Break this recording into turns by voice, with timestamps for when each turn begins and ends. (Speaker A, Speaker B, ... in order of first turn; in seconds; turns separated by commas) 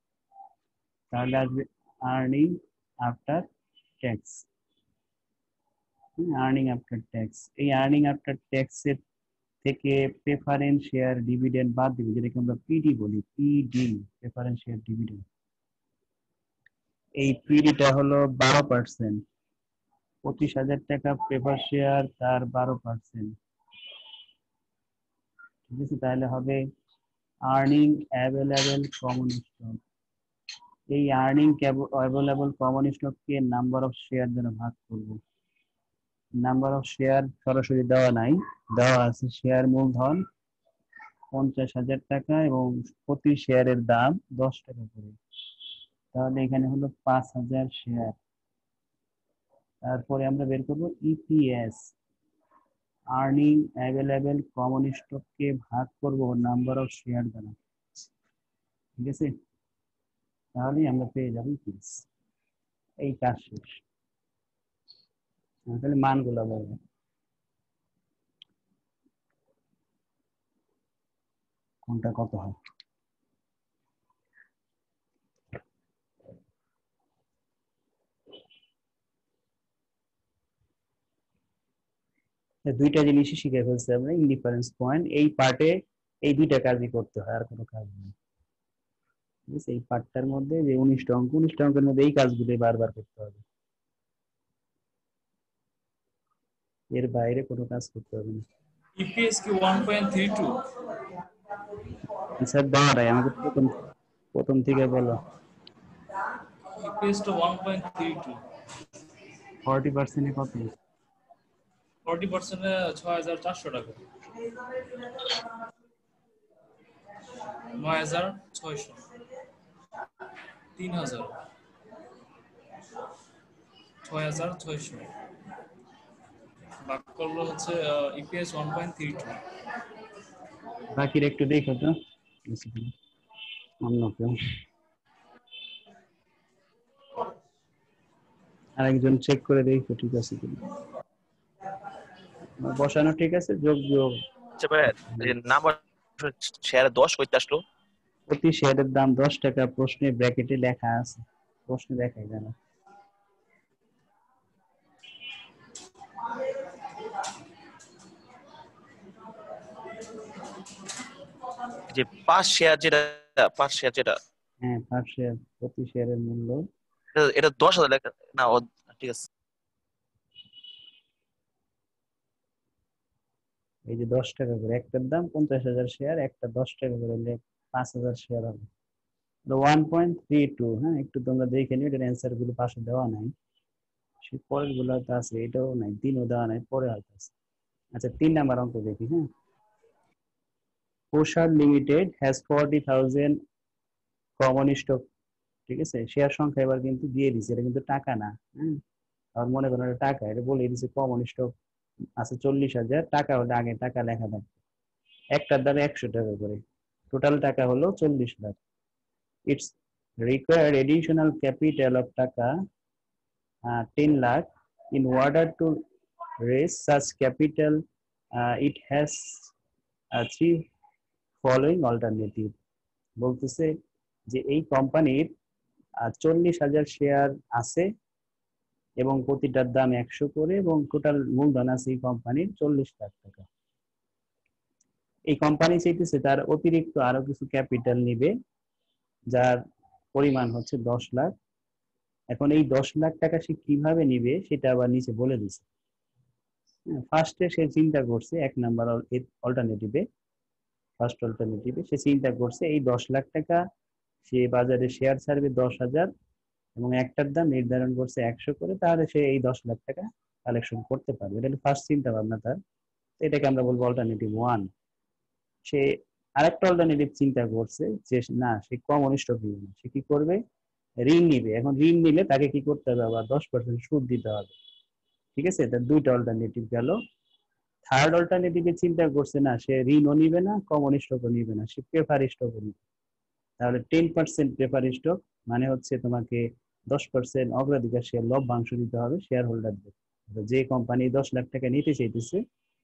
Speaker A: 1.1-3.5, Speaker A: 4.0-4.5, Speaker A: 6.2-9.0, Speaker A: 9.6-15.2, Speaker A: 17.2-19.2, Speaker A: 20.2-23.4, Speaker A: 25.7-26.7, Speaker A: 27.5-29.8, Speaker A: 30.9-35.2, Speaker A: 36.4-40.2, Speaker A: 41.3-45.2, Speaker A: 46.1-48.1, Speaker A: 49.9-51.9, Speaker A: 53.1-57.5, Speaker A: 59.0-59.3, Speaker A: 60.6-62.1, Speaker A: 63.0-63.8, Speaker A: 65.7-66.8, Speaker A: 71.9-72.5, Speaker A: 82.7-88.1, Speaker A: 89.5-93.4, Speaker A: 96.9-98.5, Speaker B: 99.0-100.7, Speaker A: 102.4-103.8, Speaker A: 104.3-105.2, Speaker B: 106.8-108.4, Speaker A: 109.7-110.7, Speaker B: 112.0-114.0, Speaker B: 117.6-119.1, Speaker B: 120.8-121.4, Speaker B: 124.0-125.1, Speaker B: 126.8-129.4, Speaker A: 130.9-132.9, Speaker A: 133.8-134.5, Speaker A: 138.8-140.7, Speaker A: 142.6-144.2, Speaker C: 144.6-147.6, Speaker A: 148.3-152.6, Speaker C: 161.9-164.2, Speaker A: 164.6-166.7, Speaker C: 167.1-169.3, Speaker A: 173.9-178.7, Speaker A: 179.5-183.3, Speaker A: 184.2-187.3, Speaker A: 187.9-189.3, Speaker A: 191.1-193.4, Speaker A: 194.4-195.0, Speaker A: 195.7-198.8, Speaker A: 199.4-201.5, Speaker A: 202.2-204.5, Speaker A: 205.3-208.6, Speaker A: 209.5-212.6, Speaker A: 213.7-215.8, Speaker A: 216.4-217.8, Speaker A: 218.3-219.5, Speaker A: 220.1-220.7, Speaker A: 221.4-222.5, Speaker A: 223.2-223.7, Speaker A: 224.3-225.3, Speaker A: 226.0-227.9, Speaker A: 229.0-233.5, Speaker A: 235.3-238.3, Speaker A: 239.3-239.6, Speaker A: 240.1-241.3, Speaker A: 242.3-245.7, Speaker A: 246.9-250.0, Speaker A: 251.0-253.6, Speaker A: 254.3-256.1, Speaker A: 256.8-262.6, Speaker A: 263.2-264.7, Speaker A: 265.7-270.4, Speaker A: 271.0-274.5, Speaker A: 275.4-277.0, Speaker A: 277.9-282.8, Speaker A: 283.6-292.4